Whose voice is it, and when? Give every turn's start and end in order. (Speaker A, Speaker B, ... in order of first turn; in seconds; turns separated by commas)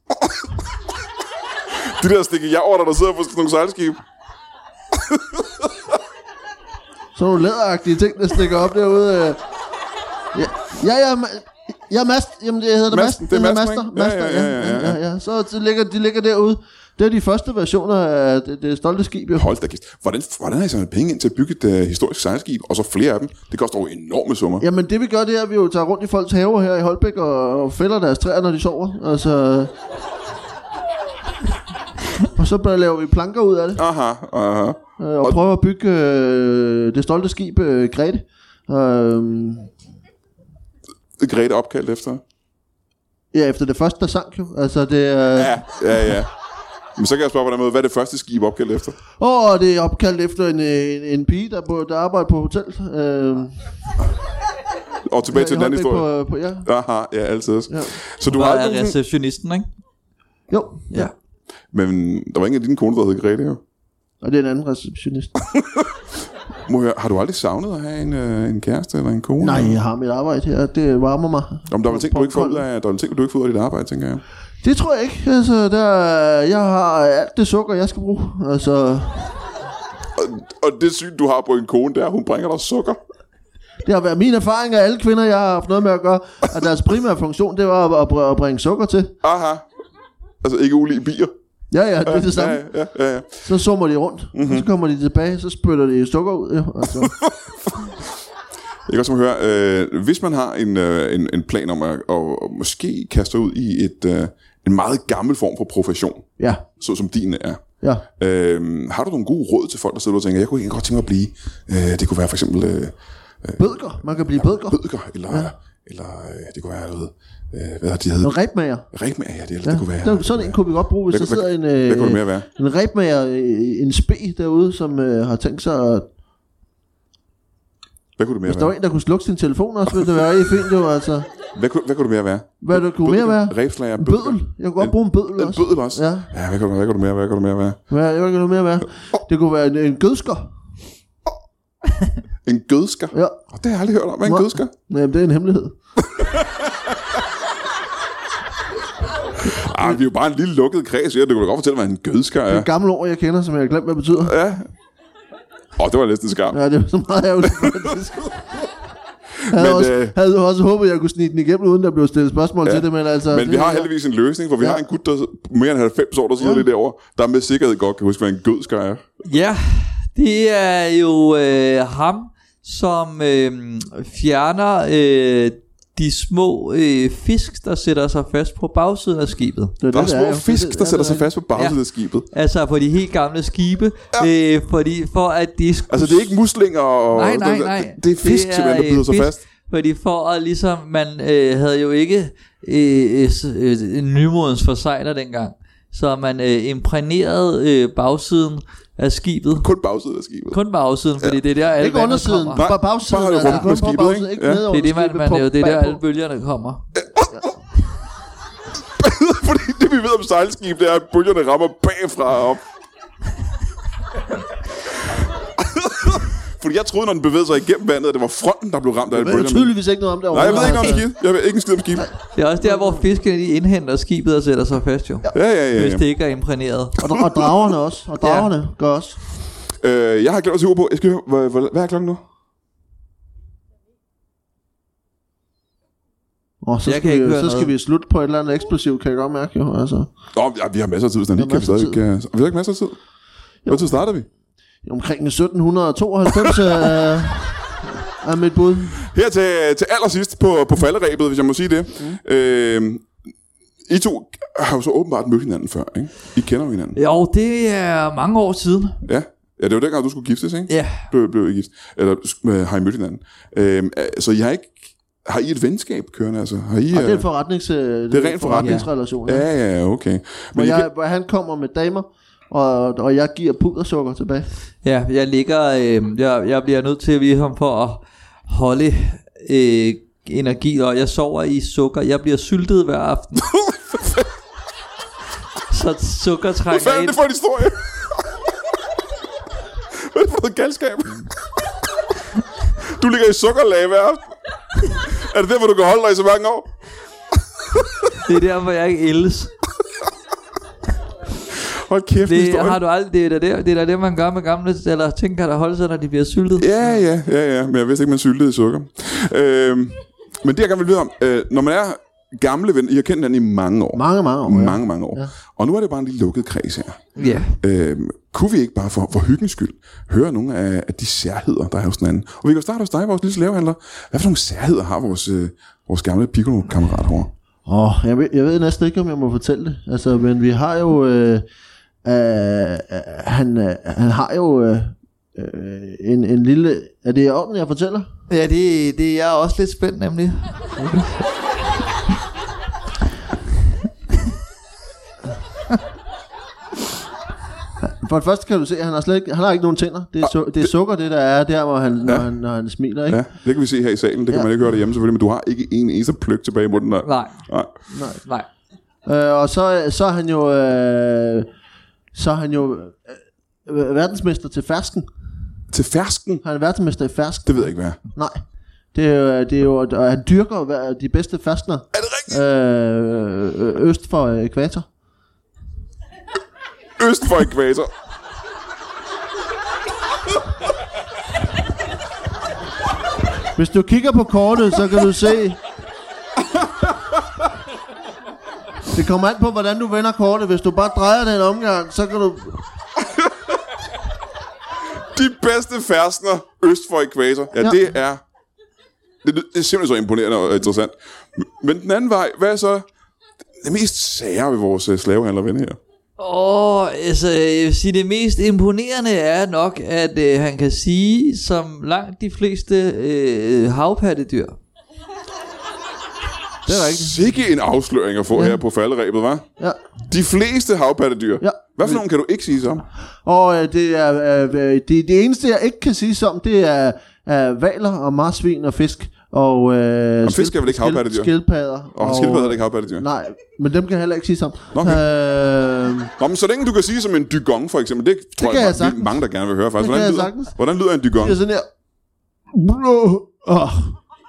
Speaker A: 1.8-4.0, Speaker A: 4.9-5.7, Speaker B: 7.1-9.4, Speaker B: 10.3-19.5, Speaker A: 12.9-15.0, Speaker A: 19.4-24.6, Speaker B: 24.6-29.7, Speaker B: 32.2-33.8, Speaker A: 33.8-35.4, Speaker B: 35.0-39.7, Speaker A: 41.2-42.2, Speaker B: 43.3-46.1, Speaker A: 45.4-46.3, Speaker A: 47.0-49.0, Speaker B: 49.2-53.6, Speaker A: 55.0-56.1, Speaker B: 55.3-56.7, Speaker A: 56.6-59.0, Speaker B: 57.7-58.0, Speaker C: 58.2-59.7, Speaker B: 60.5-61.1, Speaker A: 61.7-63.6, Speaker B: 64.2-65.3, Speaker A: 65.5-66.0, Speaker A: 66.7-69.8, Speaker B: 69.4-72.6, Speaker A: 71.7-74.2, Speaker B: 74.6-79.4, Speaker A: 80.2-83.0, Speaker B: 83.8-89.1, Speaker A: 89.2-89.6, Speaker A: 90.4-91.3, Speaker B: 91.7-92.6, Speaker A: 92.0-93.5, Speaker B: 93.4-97.1, Speaker A: 94.3-94.6, Speaker A: 97.0-97.4, Speaker A: 98.9-107.6, Speaker B: 106.4-106.6, Speaker A: 108.2-113.6, Speaker B: 113.6-115.5, Speaker A: 114.3-118.3, Speaker B: 118.2-118.9, Speaker A: 118.9-122.5, Speaker B: 119.6-126.1, Speaker A: 128.2-128.7, Speaker B: 128.4-131.3, Speaker A: 131.5-137.8, Speaker B: 132.6-136.3, Speaker B: 137.9-140.5, Speaker A: 142.4-144.7, Speaker B: 143.1-143.4, Speaker B: 144.2-145.8, Speaker A: 146.0-146.9, Speaker A: 149.4-152.7, Speaker B: 152.5-154.3, Speaker A: 154.2-154.7, Speaker A: 155.8-156.6, Speaker B: 156.5-158.7, Speaker A: 157.5-157.9, Speaker A: 159.4-160.2, Speaker B: 159.5-163.9, Speaker A: 162.7-169.0, Speaker B: 164.6-164.8, Speaker B: 166.4-166.7, Speaker C: 169.2-179.8, Speaker B: 179.8-181.3, Speaker A: 179.9-182.3, Speaker C: 182.3-186.4, Speaker A: 185.9-189.4, Speaker C: 187.1-199.7, Speaker A: 199.6-200.6, Speaker C: 200.5-202.7, Speaker B: 201.8-206.0, Speaker A: 202.5-204.6, Speaker C: 203.4-203.7, Speaker C: 204.7-206.9, Speaker A: 207.0-207.4, Speaker A: 209.0-212.6, Speaker A: 215.6-219.7, Speaker B: 219.1-221.1, Speaker A: 220.3-222.1, Speaker C: 222.3-226.9, Speaker A: 225.3-226.0, Speaker B: 227.0-229.2, Speaker C: 228.2-228.5, Speaker A: 229.8-232.2, Speaker B: 236.6-240.1, Speaker C: 236.8-237.7, Speaker A: 240.3-243.0, Speaker B: 241.3-242.0, Speaker B: 243.6-244.0, Speaker A: 243.7-244.3, Speaker B: 244.8-249.0, Speaker A: 246.4-247.0, Speaker A: 249.0-253.1, Speaker A: 253.9-257.0, Speaker C: 256.9-259.0, Speaker A: 259.0-267.2, Speaker C: 260.7-261.1, Speaker B: 266.9-269.4, Speaker A: 268.1-270.9, Speaker C: 268.6-268.9, Speaker B: 270.5-274.5, Speaker C: 274.8-283.5, Speaker A: 283.6-284.2, Speaker C: 285.7-287.2, Speaker A: 286.7-288.1, Speaker A: 289.9-291.3, Speaker A: 292.8-294.3, Speaker A: 295.0-296.7, Speaker A: 297.7-298.1, Speaker C: 298.2-299.5, Speaker A: 301.6-302.8, Speaker C: 302.2-306.7, Speaker A: 306.6-327.3, Speaker B: 313.9-315.3, Speaker B: 317.2-317.4, Speaker C: 317.2-317.5, Speaker B: 327.6-331.4, Speaker B: 332.0-338.1, Speaker C: 338.3-341.1, Speaker B: 347.8-353.2, Speaker A: 353.1-357.7, Speaker C: 357.0-357.5, Speaker B: 357.9-358.2, Speaker B: 359.1-361.5, Speaker B: 362.1-365.1, Speaker A: 365.7-366.4, Speaker B: 366.4-368.4, Speaker A: 367.4-368.0, Speaker B: 368.9-374.9, Speaker A: 371.9-372.3, Speaker A: 377.0-377.9, Speaker B: 383.5-385.6, Speaker B: 388.9-392.6, Speaker A: 395.0-398.2, Speaker A: 399.2-402.9, Speaker A: 403.6-405.8, Speaker C: 406.2-414.6, Speaker B: 416.7-417.2, Speaker A: 416.7-419.4, Speaker B: 418.3-418.6, Speaker A: 420.1-422.9, Speaker B: 421.4-422.0, Speaker B: 423.2-436.1, Speaker A: 430.2-431.3, Speaker A: 431.9-433.0, Speaker A: 434.7-435.0, Speaker A: 436.2-441.4, Speaker B: 438.4-439.2, Speaker B: 439.8-440.5, Speaker B: 441.1-441.7, Speaker B: 442.5-444.0